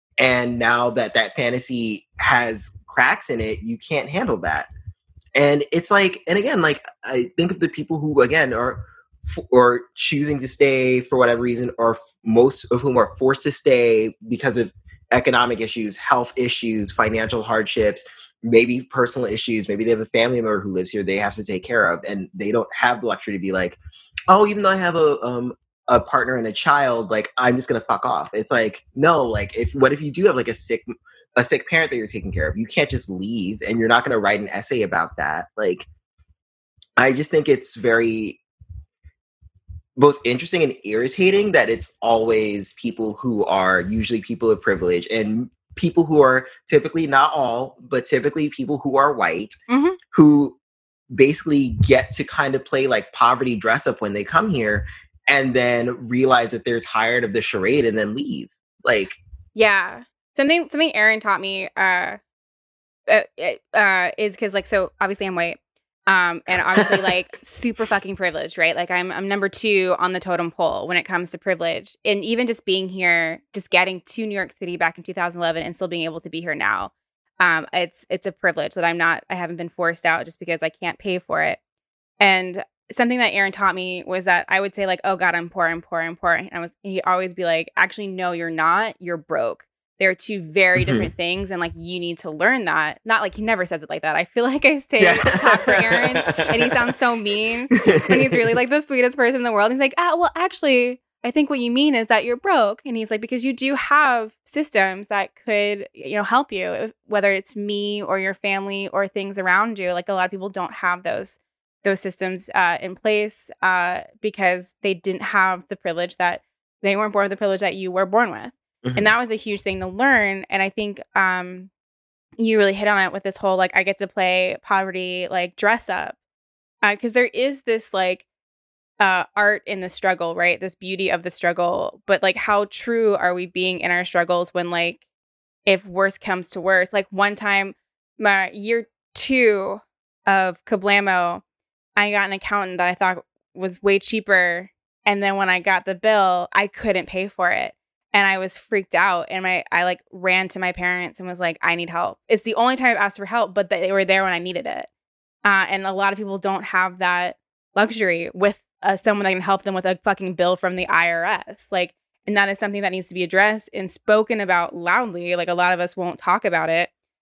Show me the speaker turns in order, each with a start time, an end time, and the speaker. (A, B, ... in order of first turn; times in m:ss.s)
0:00.2-0:04.7 A
0:05.4-0:35.9 A
0:37.0-0:38.4 A
0:40.0-0:49.6 A
0:49.7-0:50.0 B
0:50.1-0:50.6 A
0:51.1-0:59.2 A
0:59.6-1:02.2 B
1:03.1-1:21.6 B
1:06.5-1:07.1 A
1:22.2-2:01.7 B
1:30.8-1:31.1 A
1:35.0-1:36.9 A
1:37.8-1:38.6 A
1:58.8-1:59.1 A
2:02.4-2:06.2 B
2:06.8-2:08.3 B
2:09.0-2:15.0 B
2:15.7-2:21.4 B
2:22.0-2:34.9 B
2:35.4-2:46.9 B